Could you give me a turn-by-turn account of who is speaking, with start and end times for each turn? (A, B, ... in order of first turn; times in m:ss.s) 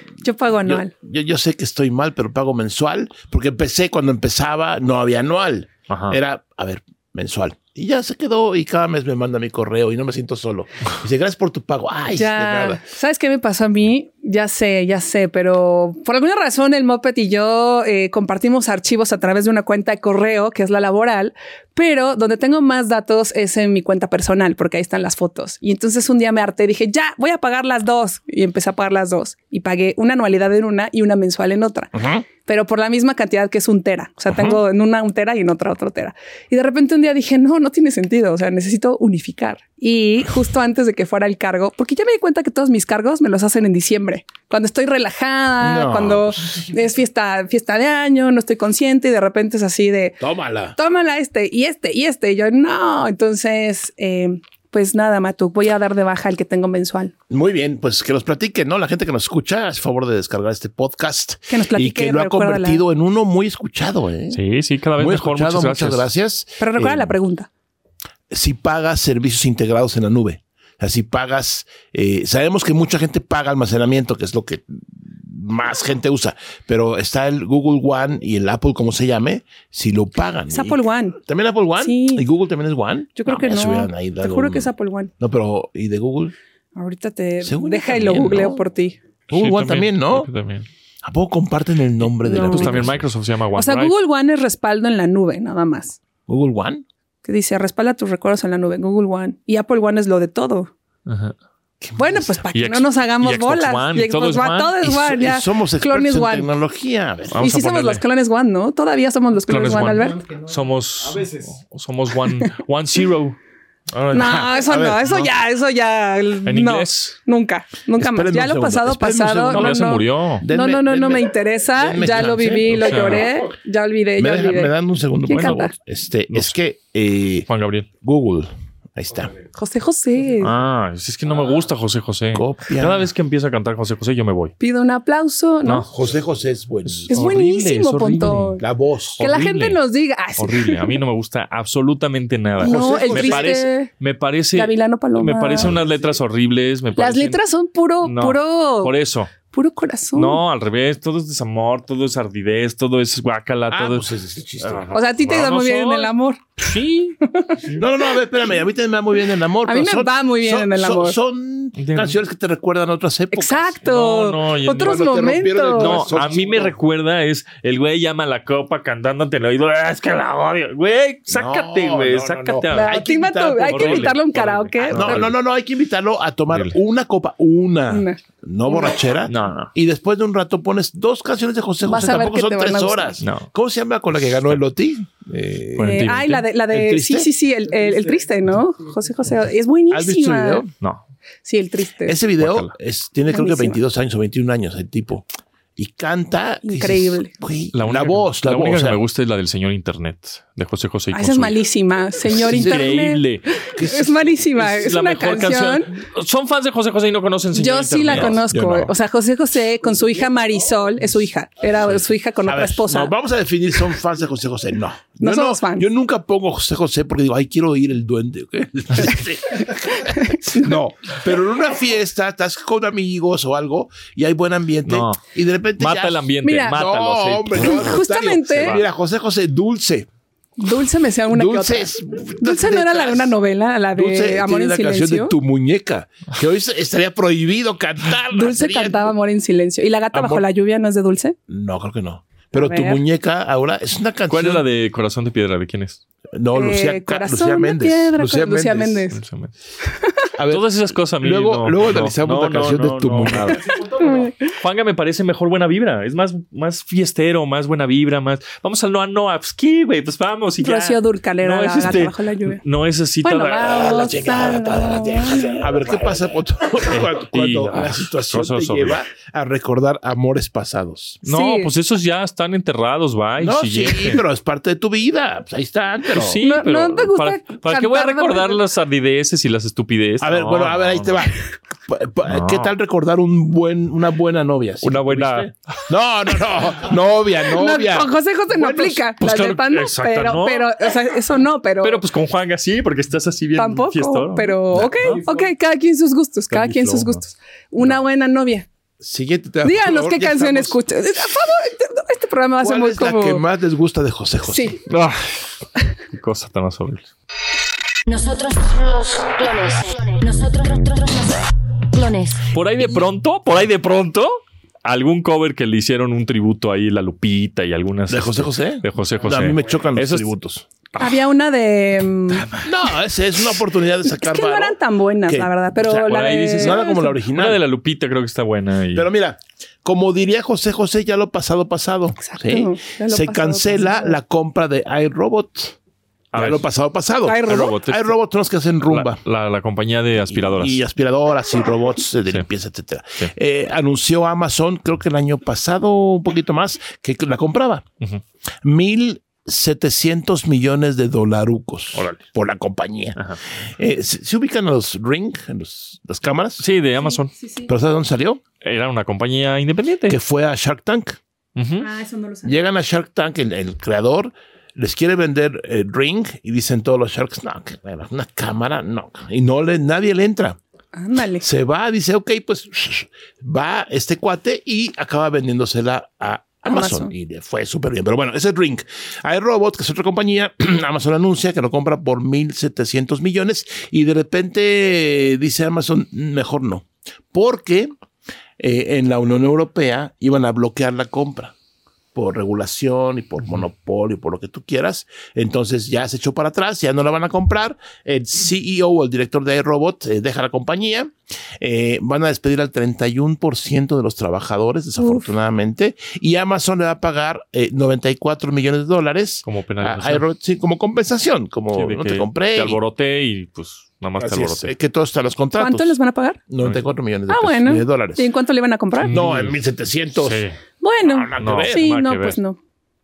0:00.2-0:00.9 A
0:00.6-0:12.8 B
0:05.9-0:06.2 C
0:12.2-0:50.2 A
0:31.9-0:32.2 B
0:45.6-0:46.7 B
0:50.2-0:50.8 B
0:50.7-0:57.1 A
0:57.3-1:04.4 B
1:01.5-1:02.8 A
1:04.3-1:06.0 C
1:05.0-1:07.1 B
1:06.6-1:07.5 A
1:08.3-1:26.3 B
1:20.5-1:21.2 A
1:21.8-1:22.2 A
1:23.2-1:25.1 A
1:26.8-1:29.0 A
1:27.4-1:28.6 B
1:29.3-1:30.3 B
1:29.3-1:30.7 C
1:31.0-1:33.0 B
1:32.2-1:32.9 A
1:32.4-1:33.9 C
1:33.6-1:36.0 A
1:36.3-1:36.8 B
1:37.2-1:40.7 A
1:41.1-1:41.4 C
1:41.8-1:42.4 B
1:42.0-1:46.5 A
1:42.5-1:44.9 C
1:44.9-1:47.5 B
1:47.3-1:48.0 C
1:47.4-1:50.3 A
1:49.5-1:53.4 C
1:53.9-1:54.5 C
1:54.1-2:04.7 A
1:54.2-1:55.3 B
1:56.4-1:57.2 C
1:58.0-2:03.2 B
1:59.5-2:00.4 C
2:02.8-2:03.3 C
2:04.2-2:07.5 B
2:05.2-2:05.7 A
2:05.3-2:05.7 C
2:06.3-2:06.5 C
2:07.5-2:07.9 C
2:08.0-2:09.4 B
2:09.5-2:10.5 A
2:10.4-2:14.5 C
2:12.3-2:13.1 B
2:14.6-2:15.9 A
2:15.6-2:15.9 C
2:15.9-2:17.3 B
2:17.0-2:18.6 C
2:17.1-2:18.6 A
2:18.6-2:19.2 B
2:19.2-2:19.8 C
2:19.2-2:21.0 A
2:20.4-2:27.4 C
2:22.6-2:23.6 B
2:22.6-2:23.9 A
2:24.5-2:25.7 A
2:27.0-2:28.9 A
2:28.0-2:29.3 C
2:29.5-2:30.4 A
2:30.1-2:34.1 C
2:33.7-2:34.9 B
2:34.6-2:37.8 C
2:34.9-2:36.7 A
2:37.3-2:37.6 A
2:37.8-2:43.7 B
2:39.6-2:41.2 A
2:41.8-2:42.2 C
2:43.3-2:46.1 A
2:43.8-2:45.0 C
2:44.8-2:46.7 B
2:45.8-2:53.0 C
2:51.3-2:54.2 B
2:52.7-2:55.2 A
2:53.6-2:55.4 C
2:54.9-3:06.1 B
2:57.9-2:58.9 A
2:59.3-2:59.7 C
3:01.8-3:03.2 A
3:03.2-3:03.5 C
3:05.8-3:06.4 C
3:05.8-3:10.6 A
3:06.7-3:07.3 B
3:09.9-3:10.7 B
3:11.4-3:12.2 A
3:12.0-3:19.0 B
3:12.4-3:12.7 C
3:13.3-3:13.8 A
3:16.6-3:17.3 A
3:17.7-3:21.6 C
3:21.1-3:25.9 A
3:22.3-3:23.4 C
3:22.5-3:22.8 B
3:23.8-3:24.4 B
3:24.6-3:28.4 C
3:27.5-3:33.1 A
3:28.1-3:28.9 B
3:32.5-3:50.1 B
3:35.2-3:35.9 A
3:40.0-3:40.7 A
3:44.9-3:48.0 C
3:46.4-3:46.8 A
3:47.5-3:48.8 A
3:50.6-3:55.3 A
3:51.3-3:53.4 B
3:53.9-3:59.1 B
3:58.3-4:01.4 A
4:00.1-4:00.4 B
4:01.5-4:04.6 B
4:02.6-4:03.0 A
4:04.3-4:06.0 C
4:06.3-4:09.0 B
4:06.5-4:09.2 A
4:09.1-4:09.5 C
4:10.4-4:13.7 B
4:10.4-4:24.2 C
4:14.0-4:14.3 A
4:20.6-4:22.6 A
4:23.2-4:25.6 A
4:23.6-4:31.2 B
4:26.9-4:29.0 C
4:31.2-4:34.2 C
4:31.2-4:31.7 A
4:33.4-4:36.4 B
4:36.1-4:41.2 C
4:36.4-4:38.6 A
4:40.2-4:49.0 B
4:42.3-4:42.7 C
4:44.8-4:45.5 C
4:47.5-4:52.0 A
4:49.2-4:50.9 C
4:51.8-4:55.4 C
4:53.6-4:58.7 A
4:54.7-4:55.2 B
4:56.5-4:57.2 C
4:59.0-5:00.8 B
4:59.6-5:03.4 A
5:02.6-5:04.8 B
5:04.5-5:04.8 A
5:04.9-5:05.4 C
5:06.1-5:07.1 C
5:08.1-5:12.5 D
5:12.5-5:20.5 C
5:18.1-5:20.6 B
5:21.0-5:22.5 A
5:22.3-5:22.7 C
5:22.6-5:27.6 B
5:24.1-5:27.1 A
5:26.0-5:29.1 C
5:28.9-5:35.7 B
5:32.2-5:34.2 A
5:36.3-5:36.6 C
5:36.3-5:39.2 B
5:37.2-5:37.7 A
5:37.4-5:38.1 C
5:38.9-5:40.8 C
5:40.3-5:47.9 B
5:48.6-5:56.6 B
5:51.9-5:52.2 C
5:56.6-5:57.3 C
5:57.0-5:57.7 A
5:57.7-5:58.4 B
5:58.6-6:00.2 C
6:00.1-6:01.2 B
6:01.6-6:01.9 C
6:01.8-6:02.5 A
6:02.4-6:10.6 B
6:10.9-6:11.4 A
6:11.4-6:27.9 B
6:16.6-6:17.1 A
6:28.6-6:31.5 B
6:32.1-6:52.8 B
6:45.0-6:45.2 A
6:49.4-6:50.2 C
6:51.7-6:54.7 C
6:54.2-6:56.0 B
6:55.6-6:56.4 A
6:56.5-6:58.2 B
6:57.3-6:59.1 A
6:59.0-6:59.5 C
6:59.1-7:00.4 B
7:00.2-7:00.6 C
7:00.8-7:02.6 A
7:01.0-7:01.9 B
7:01.4-7:02.4 C